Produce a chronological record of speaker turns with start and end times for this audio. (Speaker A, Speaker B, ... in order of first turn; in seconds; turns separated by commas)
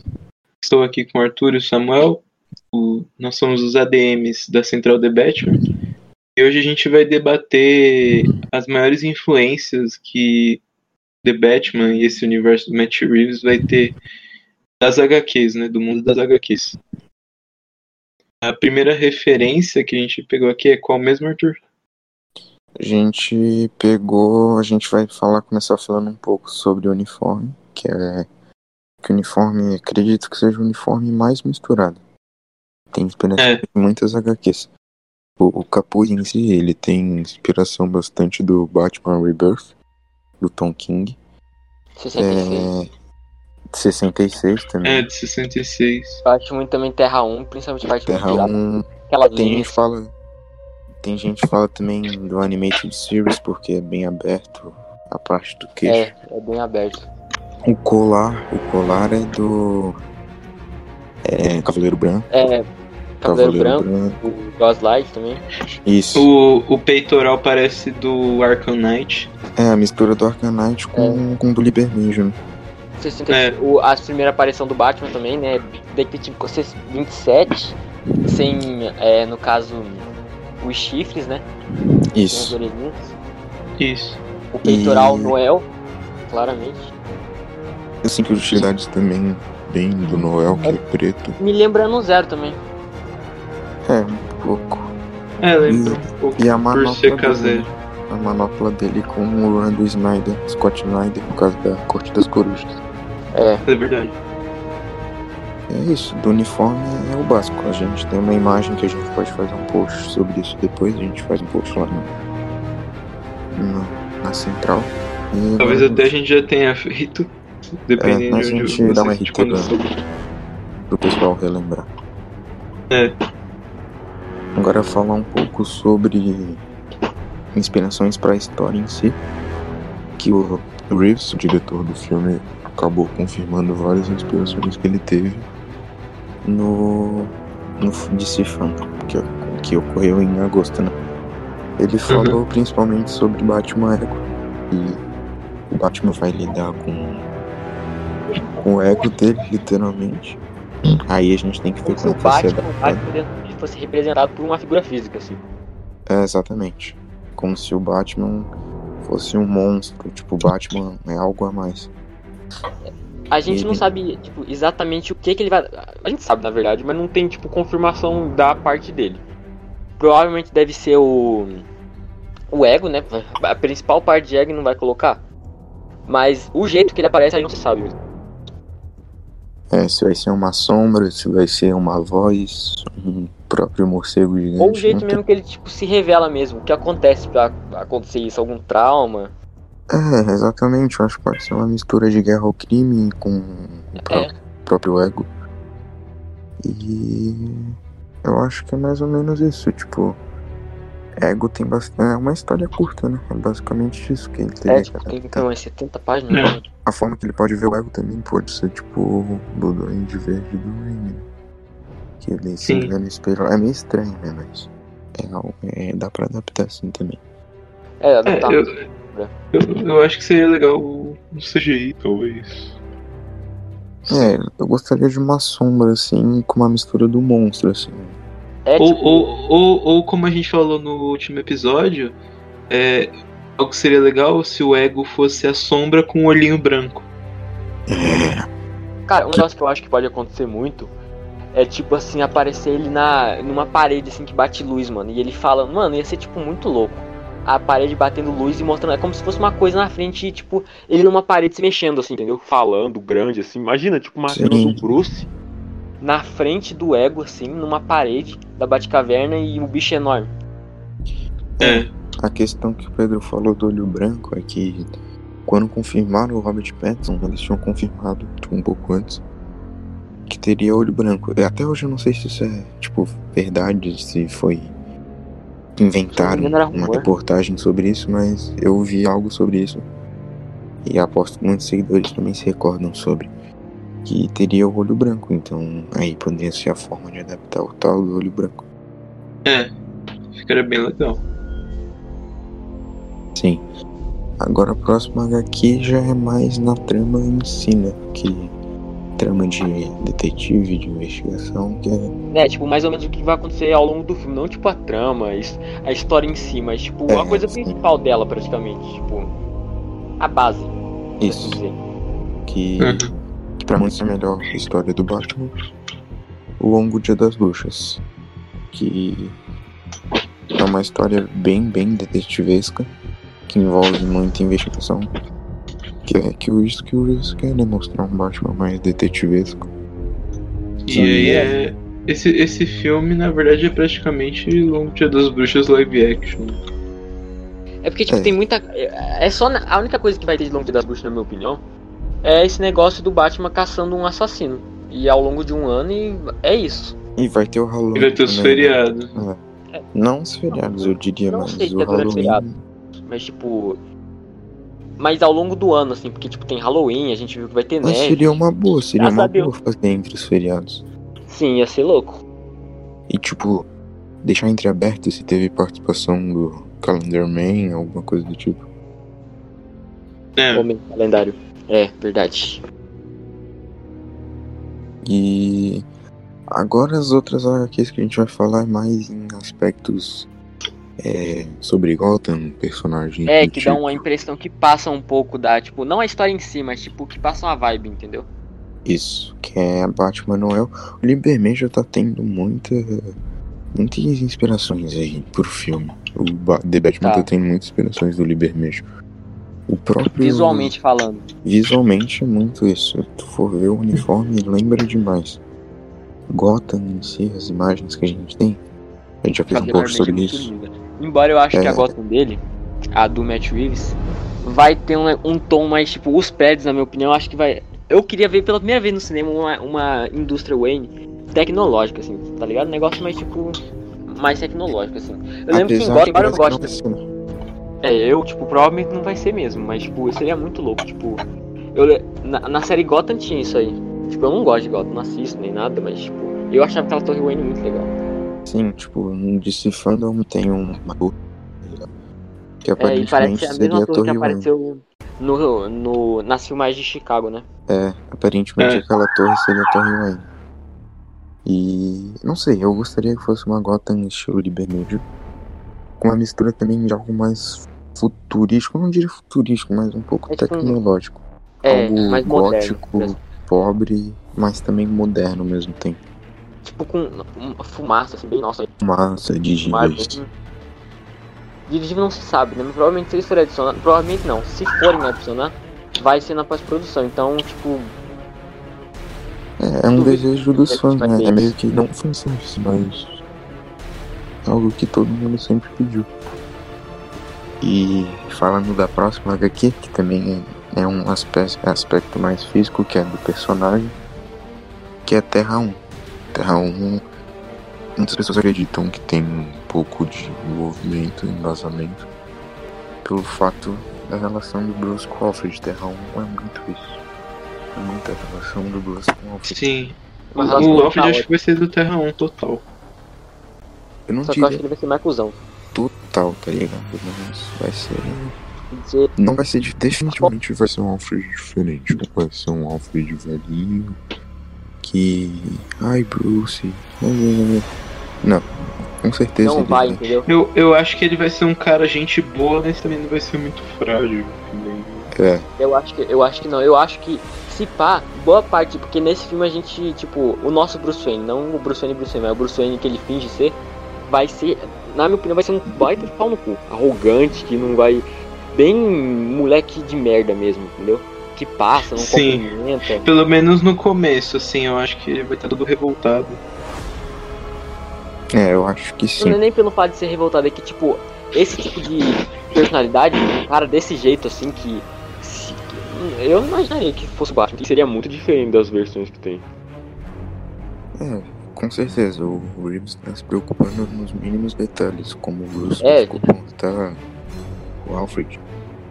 Speaker A: 0.6-5.6, Speaker A: 6.3-10.6, Speaker A: 11.2-13.9, Speaker A: 14.8-16.8, Speaker A: 18.4-21.6, Speaker B: 22.8-28.3, Speaker B: 29.0-32.0, Speaker B: 32.9-34.7, Speaker B: 35.4-39.7, Speaker B: 40.4-41.2, Speaker C: 42.0-42.7, Speaker B: 42.1-42.9, Speaker B: 43.7-45.1, Speaker A: 44.8-46.2, Speaker C: 46.2-48.5, Speaker B: 48.0-50.1, Speaker C: 49.1-49.8, Speaker B: 51.0-56.1, Speaker C: 55.8-57.1, Speaker B: 57.6-60.0, Speaker B: 61.2-62.3, Speaker C: 62.3-62.6, Speaker C: 63.2-65.4, Speaker B: 63.2-64.2, Speaker B: 65.8-66.3, Speaker A: 66.1-69.3, Speaker B: 69.6-72.3, Speaker C: 70.9-71.2, Speaker C: 73.0-77.8, Speaker A: 73.3-73.6, Speaker C: 78.3-80.1, Speaker C: 80.6-81.4, Speaker B: 82.1-82.5, Speaker C: 82.3-83.1, Speaker A: 83.8-84.2, Speaker C: 84.5-85.7, Speaker B: 84.6-85.3, Speaker C: 86.3-86.9, Speaker B: 88.0-91.4, Speaker C: 91.4-92.6, Speaker B: 93.8-94.9, Speaker A: 95.4-97.7, Speaker B: 95.6-102.8, Speaker C: 103.3-103.6, Speaker A: 103.7-104.1, Speaker B: 105.7-112.1, Speaker B: 113.5-116.0, Speaker A: 115.6-117.3, Speaker A: 117.8-119.8, Speaker B: 118.0-119.7, Speaker B: 120.9-121.9, Speaker B: 124.5-126.6, Speaker B: 127.5-129.2, Speaker B: 130.2-135.5, Speaker B: 136.4-140.9, Speaker B: 141.8-145.0, Speaker A: 142.1-142.4, Speaker B: 145.7-147.2, Speaker B: 148.6-150.4, Speaker B: 151.1-153.0, Speaker C: 151.8-155.4, Speaker B: 156.1-158.5, Speaker B: 159.0-161.9, Speaker C: 163.3-169.2, Speaker B: 163.4-163.8, Speaker C: 170.0-171.6, Speaker C: 172.5-175.2, Speaker C: 176.1-177.9, Speaker B: 179.7-185.2, Speaker C: 184.6-189.3, Speaker B: 189.9-195.3, Speaker C: 194.0-194.3, Speaker B: 196.6-200.2, Speaker B: 201.2-205.4, Speaker C: 204.7-206.6, Speaker A: 206.3-206.6, Speaker B: 206.8-211.2, Speaker B: 212.2-217.2, Speaker A: 212.6-212.9, Speaker C: 218.0-219.3, Speaker A: 218.2-218.8, Speaker A: 219.5-222.7, Speaker A: 224.1-224.4, Speaker B: 224.1-228.2, Speaker C: 228.6-229.3, Speaker A: 228.8-232.1, Speaker A: 232.7-237.1, Speaker B: 237.9-238.5, Speaker C: 239.1-240.9, Speaker C: 241.5-255.3, Speaker B: 254.3-254.8, Speaker C: 256.0-260.3, Speaker B: 261.6-264.9, Speaker A: 261.6-261.9, Speaker B: 265.4-269.2, Speaker B: 270.3-274.7, Speaker B: 275.8-279.8, Speaker C: 276.1-277.1, Speaker B: 280.8-283.3, Speaker B: 284.0-288.6, Speaker A: 289.4-289.7, Speaker A: 290.3-291.2, Speaker B: 293.3-293.6, Speaker B: 294.4-298.5, Speaker B: 299.2-302.1, Speaker C: 302.3-309.3, Speaker B: 307.1-307.8, Speaker C: 310.2-311.8, Speaker B: 311.2-311.6, Speaker B: 312.4-313.1, Speaker A: 312.8-313.1, Speaker B: 313.6-315.5, Speaker B: 316.6-318.0, Speaker B: 318.7-319.4, Speaker B: 320.6-322.9, Speaker B: 323.5-325.1, Speaker B: 326.0-329.7, Speaker A: 330.8-336.6, Speaker B: 330.9-331.5, Speaker C: 331.2-331.5, Speaker C: 337.8-341.6, Speaker B: 338.1-338.4, Speaker C: 342.2-346.9, Speaker B: 347.2-349.4, Speaker A: 347.9-349.1, Speaker B: 349.9-352.6, Speaker C: 350.5-352.4, Speaker C: 353.1-353.8, Speaker C: 355.0-358.4, Speaker B: 357.8-360.8, Speaker C: 358.9-359.5, Speaker C: 361.3-362.2, Speaker B: 363.1-363.7, Speaker B: 364.2-368.6, Speaker A: 370.4-370.7, Speaker C: 370.5-372.6, Speaker B: 375.0-375.9, Speaker B: 376.5-380.3, Speaker B: 381.0-384.0, Speaker C: 383.3-388.3, Speaker B: 388.8-393.1, Speaker B: 393.7-398.8, Speaker C: 397.0-397.3, Speaker B: 399.7-400.7, Speaker C: 400.2-401.2, Speaker B: 401.4-405.4, Speaker B: 406.3-408.6, Speaker B: 409.2-410.5, Speaker C: 409.5-412.4, Speaker B: 411.5-411.9, Speaker C: 412.9-423.6, Speaker C: 424.1-426.8, Speaker B: 425.5-427.0, Speaker C: 427.8-431.2, Speaker C: 431.7-437.9, Speaker B: 438.4-441.9, Speaker B: 442.6-444.5, Speaker C: 442.8-447.4, Speaker B: 447.7-450.3, Speaker A: 448.6-448.9, Speaker B: 451.4-455.0, Speaker B: 456.0-466.0, Speaker C: 460.3-460.8, Speaker C: 461.6-463.2, Speaker C: 466.6-468.7, Speaker B: 468.8-470.2, Speaker C: 469.7-470.3, Speaker C: 471.7-477.9, Speaker B: 479.6-483.1, Speaker C: 479.9-481.5, Speaker B: 484.4-486.1, Speaker B: 487.6-493.9, Speaker B: 495.0-495.8, Speaker B: 496.3-497.0, Speaker B: 498.0-502.1, Speaker B: 503.0-507.0, Speaker B: 507.7-509.6, Speaker A: 509.4-512.6, Speaker C: 510.3-511.3, Speaker B: 510.5-510.8, Speaker B: 514.1-514.6, Speaker C: 514.2-515.4, Speaker B: 515.7-518.3, Speaker C: 518.7-519.1, Speaker B: 519.2-524.0, Speaker C: 520.1-520.3, Speaker B: 524.8-527.7, Speaker B: 529.0-530.0, Speaker C: 529.4-530.3, Speaker A: 530.3-535.1, Speaker B: 535.1-535.5, Speaker C: 535.6-553.0, Speaker A: 552.0-552.4, Speaker A: 553.0-556.4, Speaker B: 558.3-559.4, Speaker C: 559.2-569.5, Speaker B: 571.0-577.0, Speaker C: 575.8-576.2, Speaker B: 577.8-578.4